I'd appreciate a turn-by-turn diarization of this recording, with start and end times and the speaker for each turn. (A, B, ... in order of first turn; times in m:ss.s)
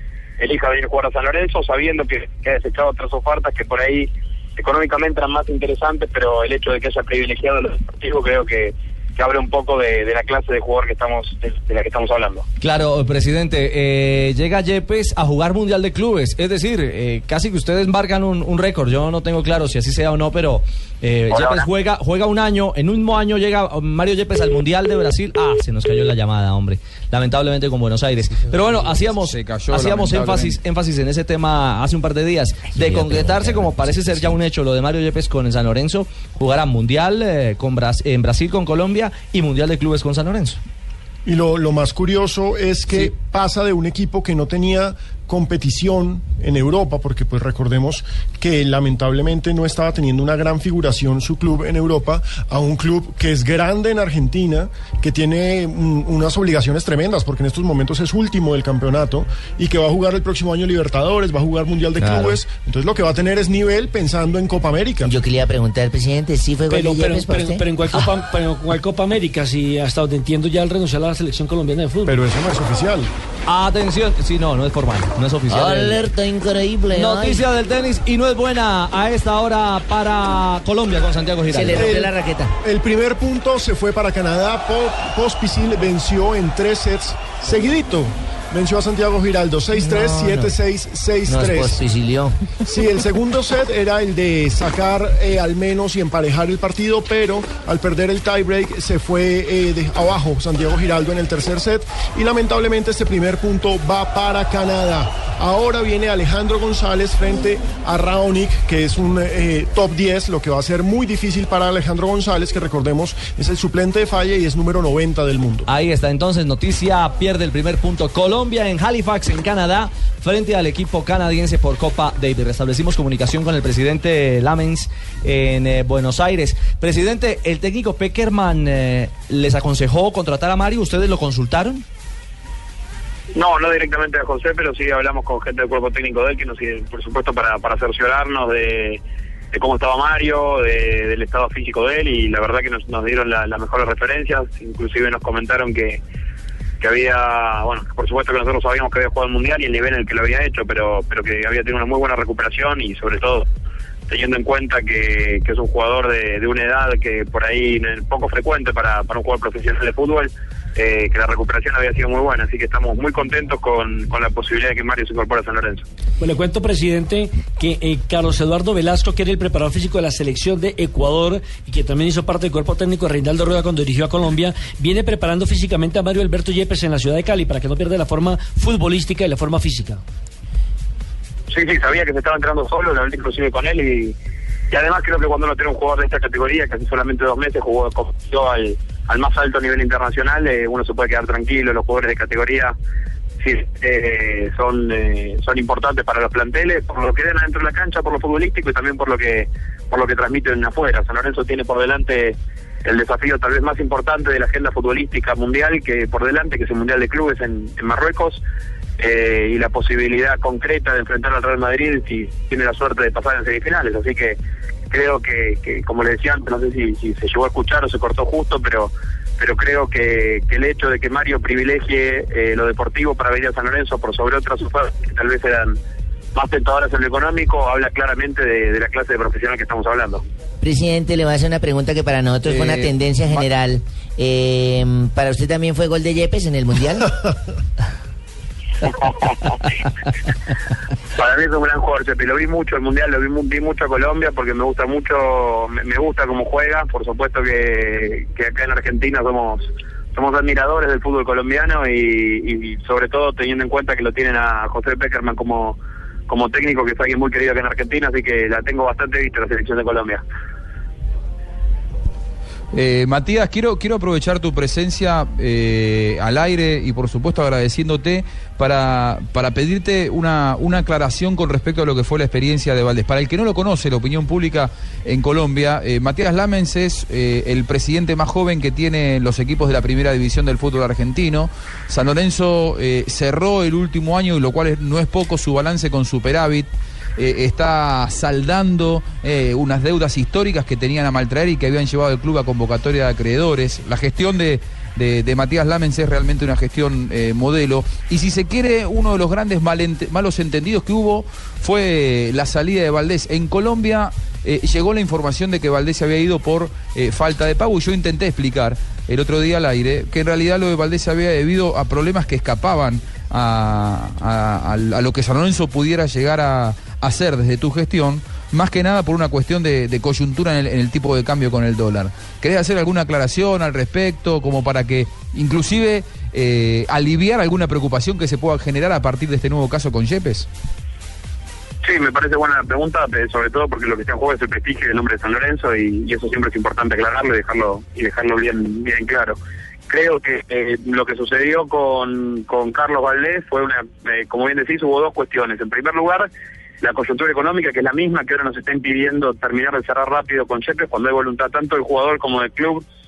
0:00.4-0:12.4 A
0:12.6-0:40.6 B
0:21.3-0:21.6 A
0:28.8-0:30.6 C
0:32.7-0:34.3 D
0:41.2-1:05.1 E
1:02.0-1:02.4 D
1:05.0-1:07.7 D
1:06.7-1:12.2 F
1:12.0-1:13.1 E
1:13.5-1:16.0 B
1:15.5-1:17.4 D
1:16.9-1:21.9 B
1:21.5-1:22.5 D
1:21.7-1:22.1 E
1:22.6-1:31.8 E
1:29.8-1:30.5 D
1:31.2-1:32.4 D
1:32.6-1:55.7 E
1:55.6-2:11.8 B
2:13.3-2:19.0 A
2:19.5-2:26.0 A
2:26.8-2:33.5 A
2:34.1-2:45.8 A
2:46.2-3:00.0 F
3:01.5-3:04.1 A
3:04.7-3:12.7 A
3:13.4-3:28.4 A
3:29.0-3:34.4 A
3:34.9-3:45.8 A
3:46.3-3:50.2 A
3:50.6-3:57.1 D
3:52.5-3:52.8 B
3:58.8-3:59.6 A
4:01.2-4:15.8 A
4:16.3-4:20.2 A
4:22.7-5:30.5 C
5:31.8-5:39.4 A
5:39.9-5:46.3 A
5:46.8-5:52.8 A